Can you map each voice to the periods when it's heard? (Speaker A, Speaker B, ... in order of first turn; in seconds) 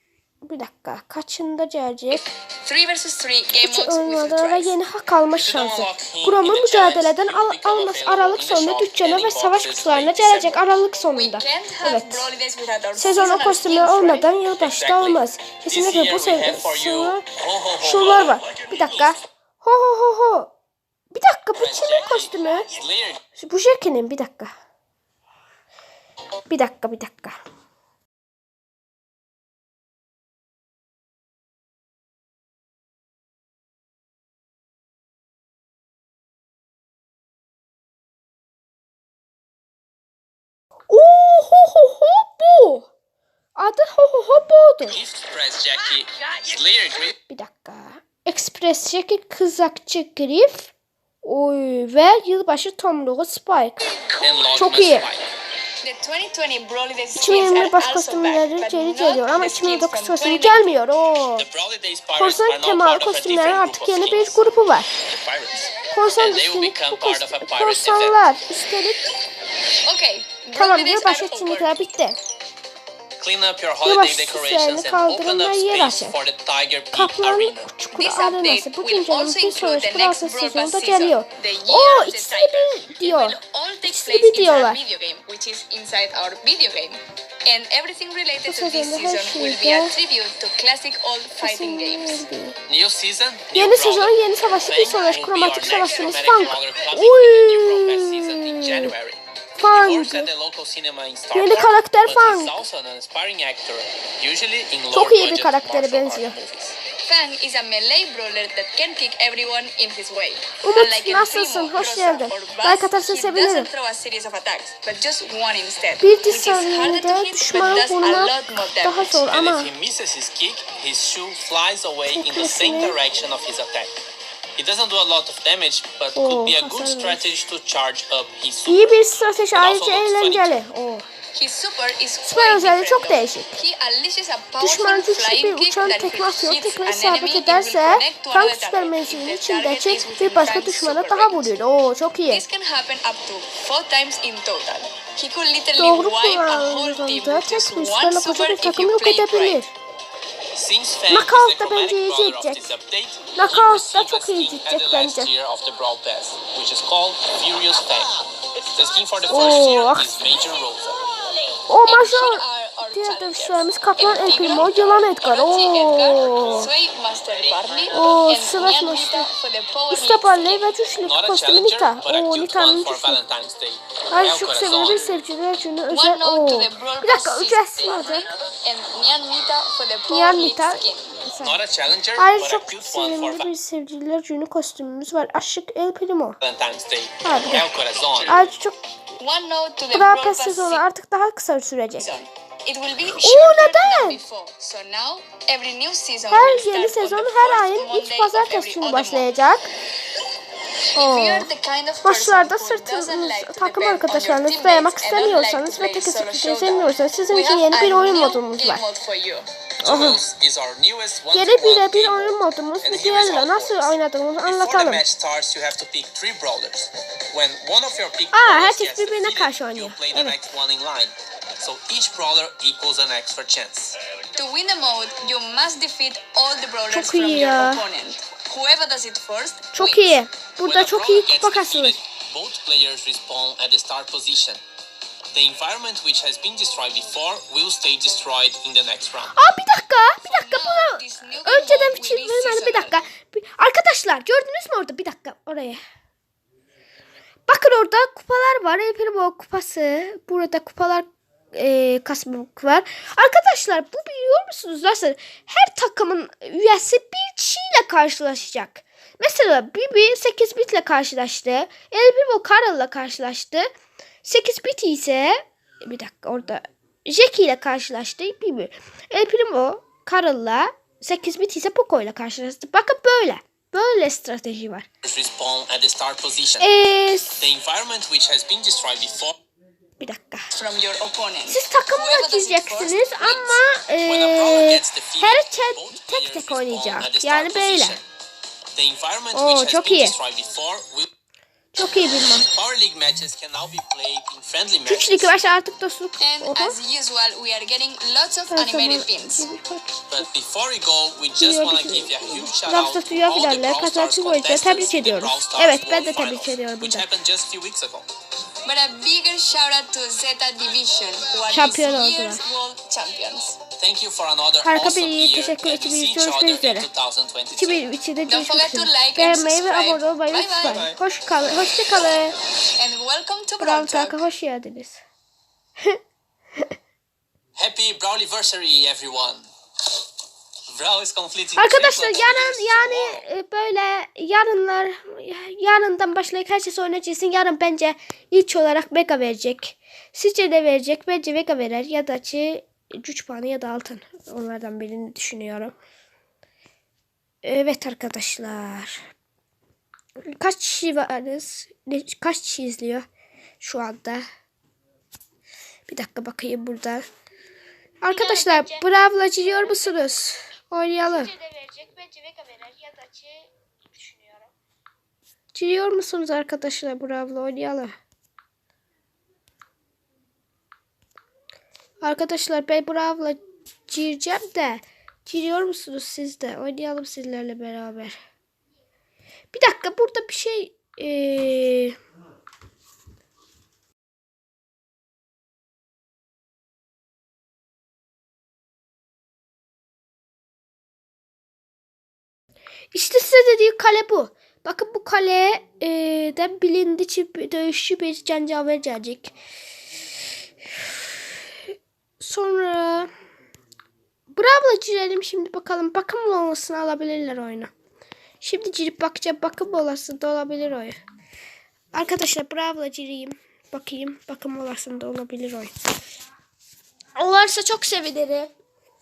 Speaker A: 0.4-2.2, 3.6-12.3, 13.0-17.3, 17.8-20.5, 21.1-22.7, 23.4-24.5, 26.5-27.4, 40.9-42.9, 43.6-45.0, 47.3-50.7, 51.2-53.9, 54.5-55.1, 57.2-61.5, 62.2-64.9, 65.9-69.0, 70.5-72.2, 73.8-76.2, 76.9-84.8, 88.5-89.9, 91.4-92.6, 93.5-98.9, 99.6-100.3, 101.3-102.5, 104.9-106.4, 110.6-113.7, 116.0-119.7, 122.1-123.0, 126.2-127.3, 128.7-131.1, 132.3-133.6, 134.6-142.4, 145.8-149.7, 151.1-152.7, 153.4-155.3, 159.3-160.1, 161.7-166.7, 167.9-169.3, 169.9-173.2, 174.1-178.3, 180.1-181.6, 182.2-186.4, 187.2-187.7, 188.2-188.8, 189.9-192.1, 193.1-194.2, 196.3-199.7, 200.9-201.5, 202.0-208.8, 209.8-210.2, 211.3-215.0, 218.3-220.4, 226.9-227.8, 229.7-232.0, 239.3-245.8, 247.5-263.7, 264.2-274.9, 276.6-277.4, 280.0-280.5, 281.5-288.0, 289.3-290.1, 291.7-292.5, 294.9-296.8, 298.5-300.3, 301.4-307.1, 311.5-312.4, 314.6-316.9, 317.6-322.4, 323.6-325.0, 331.6-345.8, 347.4-349.1, 350.2-353.1, 353.6-354.3, 355.9-357.1, 358.0-361.4, 364.0-364.4, 365.5-368.0, 372.0-378.2, 379.5-382.0, 392.9-399.4, 402.2-403.1, 404.3-407.7, 408.4-411.0, 411.9-415.7, 417.2-418.5
Speaker B: 2.1-4.8, 11.1-14.3, 55.8-60.8, 69.8-71.8, 78.0-92.2, 96.0-96.5, 107.0-119.3, 131.3-141.5, 142.3-149.6, 161.9-170.8, 175.9-181.2, 189.2-190.8, 192.0-199.3, 200.9-209.5, 224.3-230.2, 240.2-243.0, 280.5-283.6, 296.2-299.5, 308.6-313.6, 318.3-320.9, 322.7-324.2, 358.1-358.7
Speaker C: 5.3-10.6, 14.6-19.1, 21.6-23.2, 44.8-47.2, 54.2-55.3, 61.4-68.2, 73.2-77.7, 92.7-106.8, 119.3-124.0, 124.6-130.6, 150.5-161.1, 171.0-175.2, 181.4-183.5, 186.4-188.4, 209.8-224.0, 230.6-234.6, 235.3-239.4, 275.0-276.7, 277.4-279.4, 284.1-288.0, 288.7-291.1, 292.5-295.4, 300.1-308.1, 313.8-317.8, 320.6-321.0, 327.6-329.5, 330.7-333.2